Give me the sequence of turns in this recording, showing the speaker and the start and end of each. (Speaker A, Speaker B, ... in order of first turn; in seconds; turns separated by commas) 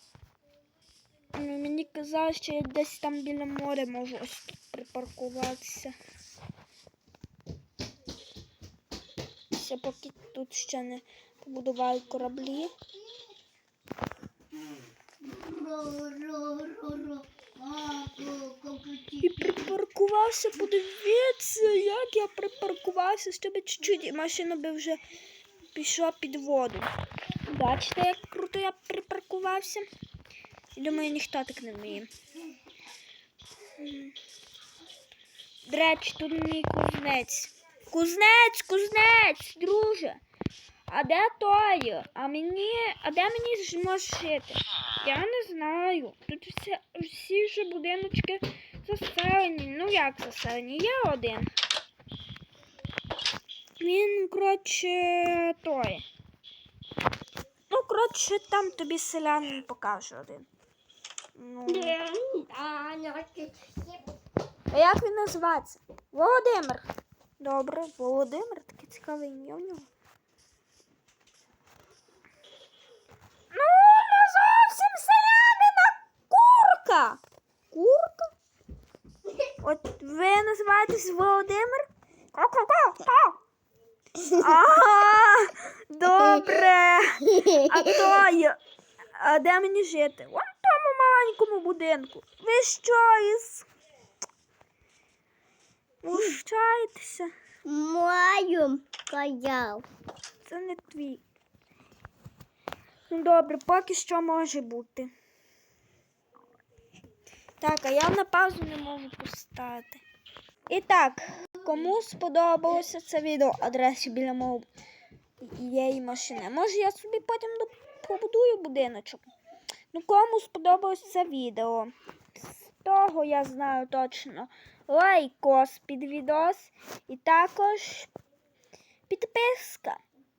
Speaker A: 1.3-6.0, Speaker A: 9.5-12.7, Speaker B: 15.2-19.3, Speaker A: 19.2-25.0, Speaker A: 25.7-26.9, Speaker A: 27.5-29.9, Speaker A: 30.8-32.1, Speaker A: 33.8-34.1, Speaker A: 35.6-40.2, Speaker A: 40.9-51.5, Speaker A: 53.8-56.0, Speaker A: 57.7-60.5, Speaker A: 61.4-62.0, Speaker B: 61.7-64.0, Speaker A: 64.7-66.8, Speaker A: 67.4-69.9, Speaker A: 73.5-78.3, Speaker A: 79.6-83.4, Speaker B: 84.2-84.5, Speaker A: 84.2-88.6, Speaker B: 87.3-88.0, Speaker A: 89.2-93.7, Speaker A: 96.0-97.3, Speaker B: 97.7-99.9, Speaker A: 100.5-101.2, Speaker A: 103.1-105.1, Speaker A: 107.6-110.0, Speaker A: 110.7-114.7, Speaker A: 115.4-119.2, Speaker A: 119.9-121.9, Speaker A: 122.4-128.1, Speaker A: 129.1-130.0